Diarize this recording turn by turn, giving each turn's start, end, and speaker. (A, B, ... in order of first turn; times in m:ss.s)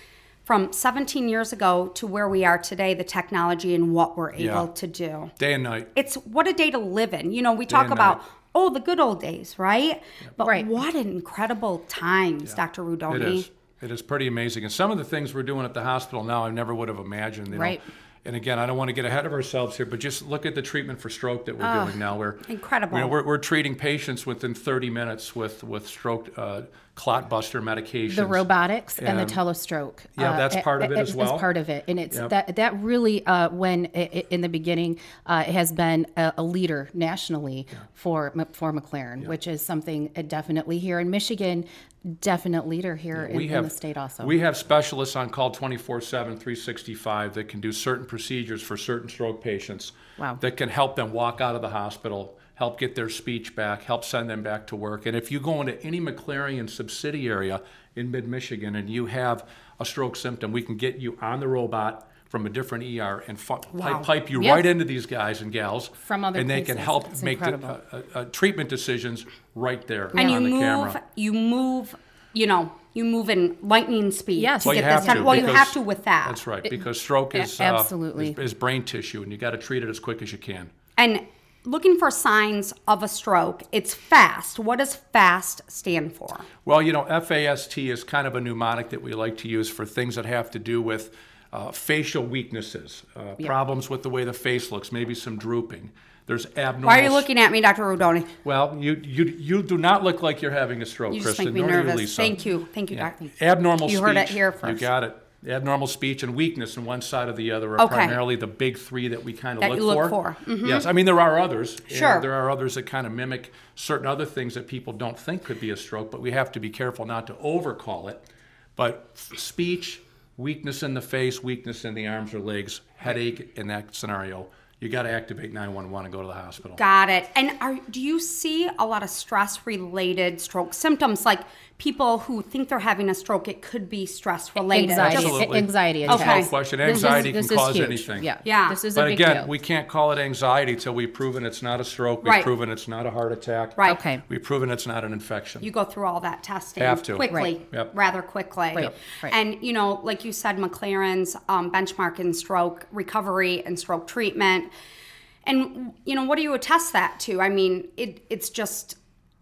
0:00.5-0:05.3 A
0:04.4-0:04.7 B
0:05.4-0:05.9 B
0:06.0-0:13.5 A
0:07.7-0:08.2 B
0:10.4-0:10.7 C
0:13.1-0:29.4 B
0:17.5-0:17.8 C
0:21.6-0:22.0 C
0:22.5-0:23.2 A
0:28.1-0:44.3 C
0:30.2-0:31.5 B
0:43.1-1:11.0 B
1:03.8-1:04.1 A
1:04.4-1:04.7 C
1:06.0-1:07.8 C
1:10.2-1:16.4 A
1:14.4-1:15.6 C
1:14.6-1:20.7 B
1:17.3-1:18.4 C
1:21.0-1:26.5 A
1:26.6-1:37.3 B
1:36.8-1:38.4 A
1:38.4-1:42.4 B
1:41.1-1:43.3 A
1:42.9-2:06.8 B
1:43.8-1:44.9 A
1:47.8-1:48.2 A
1:49.6-1:50.9 A
1:51.9-1:52.3 A
2:06.8-2:15.5 A
2:14.6-2:19.5 C
2:14.9-2:18.3 B
2:16.1-2:17.3 A
2:18.4-2:18.8 A
2:18.9-2:25.7 B
2:22.2-2:22.5 A
2:23.8-2:24.2 C
2:25.6-2:34.7 A
2:26.8-2:27.9 B
2:28.7-2:29.4 C
2:35.4-2:39.0 A